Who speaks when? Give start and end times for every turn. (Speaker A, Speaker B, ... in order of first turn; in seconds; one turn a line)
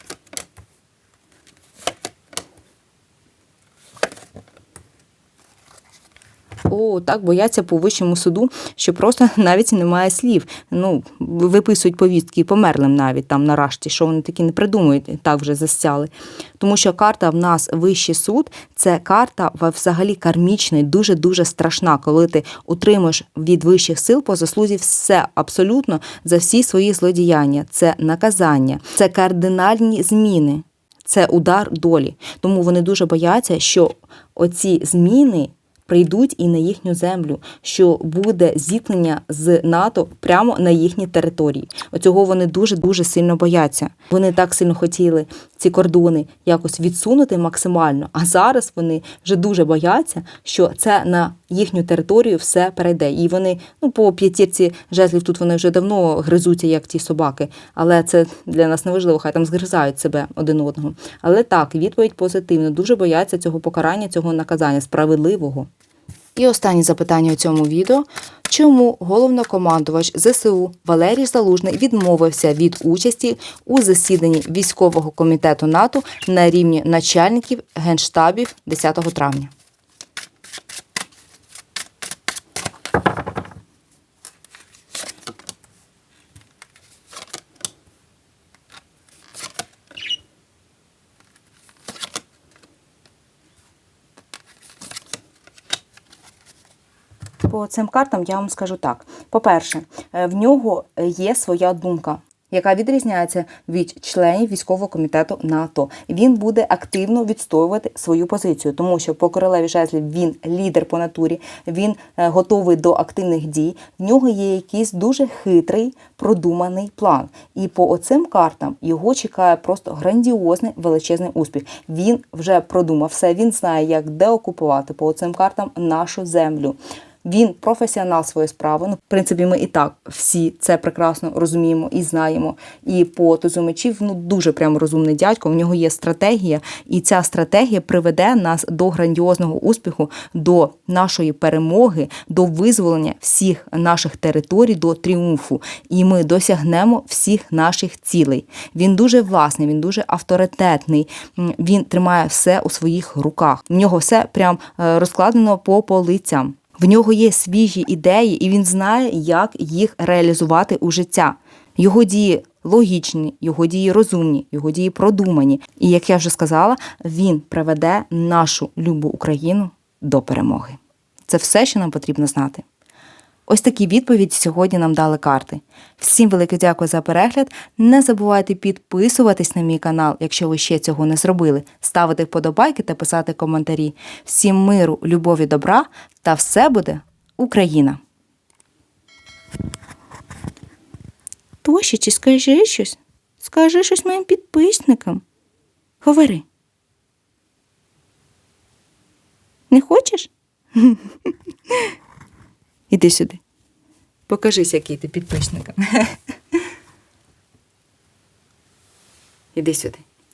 Speaker A: 6.7-65.7
Speaker A: 66.3-79.5
Speaker A: 97.4-172.6
Speaker A: 173.5-188.0
Speaker A: 191.6-195.2
Speaker A: 196.0-196.4
Speaker A: 199.7-201.0
Speaker A: 202.9-203.4
Speaker A: 204.3-206.2
Speaker A: 209.6-210.0